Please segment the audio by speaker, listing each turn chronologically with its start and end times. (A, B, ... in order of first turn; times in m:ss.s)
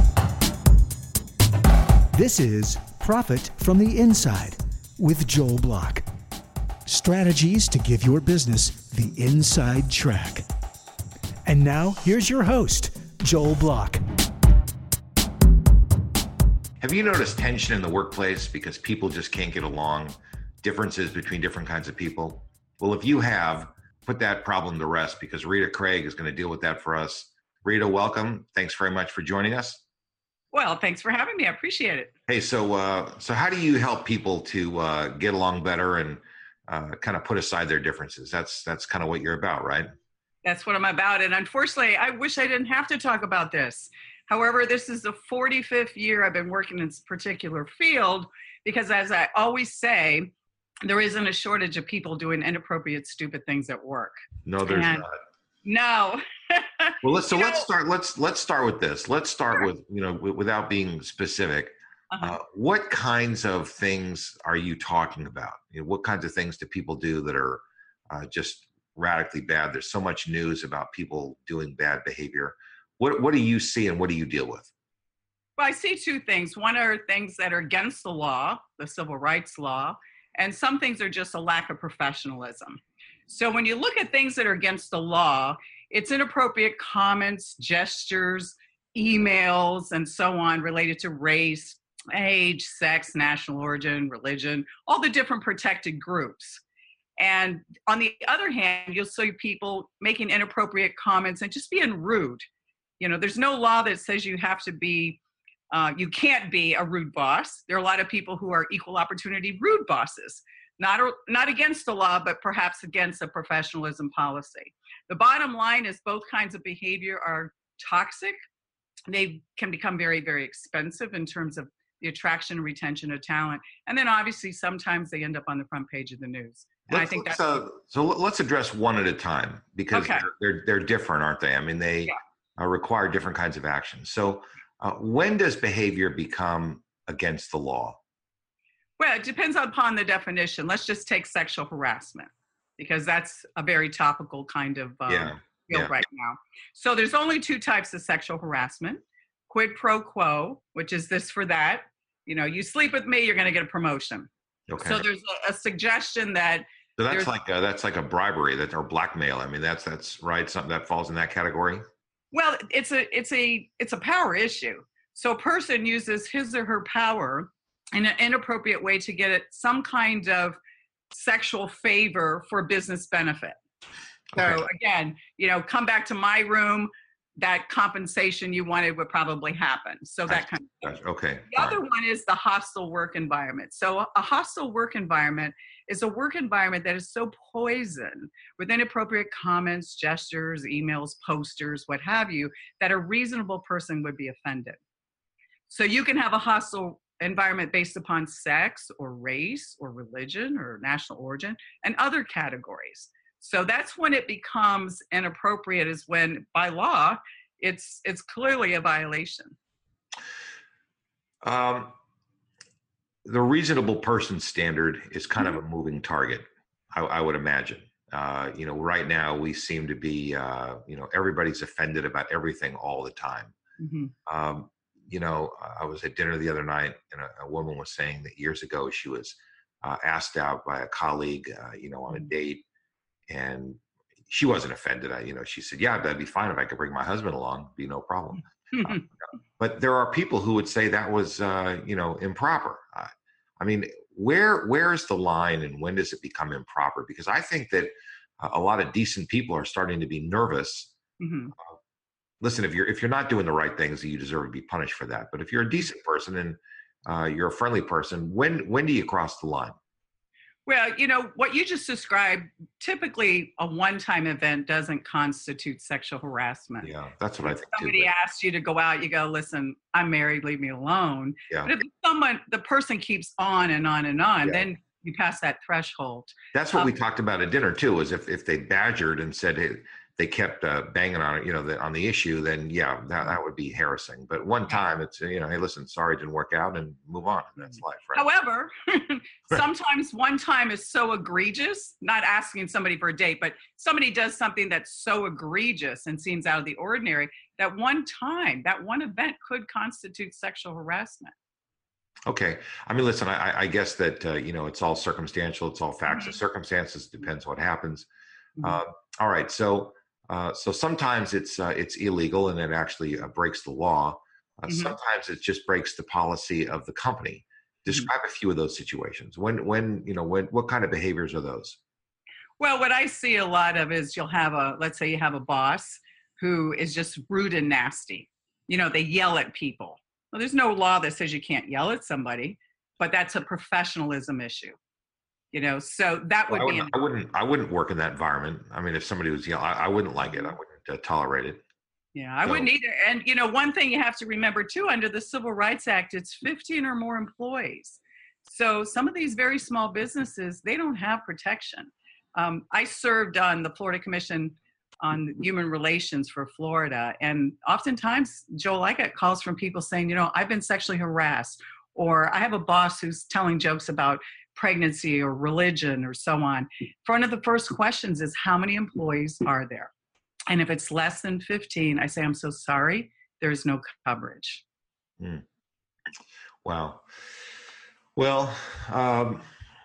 0:02.1-0:06.0 A
0:06.9-0:10.4 A
0:11.4-0:14.0 A
0:16.8-0:29.8 B
0:30.5-0:32.1 C
0:32.3-0:39.9 B
0:40.4-0:50.3 C
0:50.8-0:55.0 C
0:54.4-0:55.2 B
0:55.6-0:57.7 C
0:57.0-1:14.7 B
1:02.1-1:02.4 C
1:15.6-1:36.6 C
1:37.2-1:42.4 C
1:43.0-1:45.2 C
1:45.7-1:58.4 C
1:59.1-2:07.6 C
2:06.9-2:18.0 B
2:09.9-2:10.3 C
2:19.0-2:37.3 C
2:25.1-2:25.9 B
2:34.7-2:35.0 B
2:37.0-2:41.8 B
2:42.3-2:50.6 C
2:51.1-2:53.6 C
2:54.3-2:54.7 B
2:54.4-3:00.9 C
3:00.3-3:01.8 B
3:01.5-3:14.8 C
3:15.7-3:29.6 C
3:31.4-3:31.9 B
3:33.2-3:43.5 B
3:43.8-3:44.1 C
3:44.2-3:52.6 B
3:53.3-3:59.0 B
3:58.7-3:59.0 C
3:59.6-4:10.9 B
4:11.2-4:11.5 C
4:12.4-4:19.8 B
4:20.6-4:26.9 C
4:26.8-4:28.1 B
4:27.7-4:36.9 C
4:36.5-4:48.2 B
4:47.7-5:01.3 C
5:02.2-5:08.1 B
5:08.6-5:21.8 B
5:14.7-5:15.0 C
5:22.6-5:34.8 C
5:35.5-5:36.9 C
5:36.5-5:41.6 B
5:40.2-5:40.6 C
5:42.1-6:09.9 C
6:10.5-6:14.6 C
6:16.6-6:17.1 B
6:18.2-6:19.4 B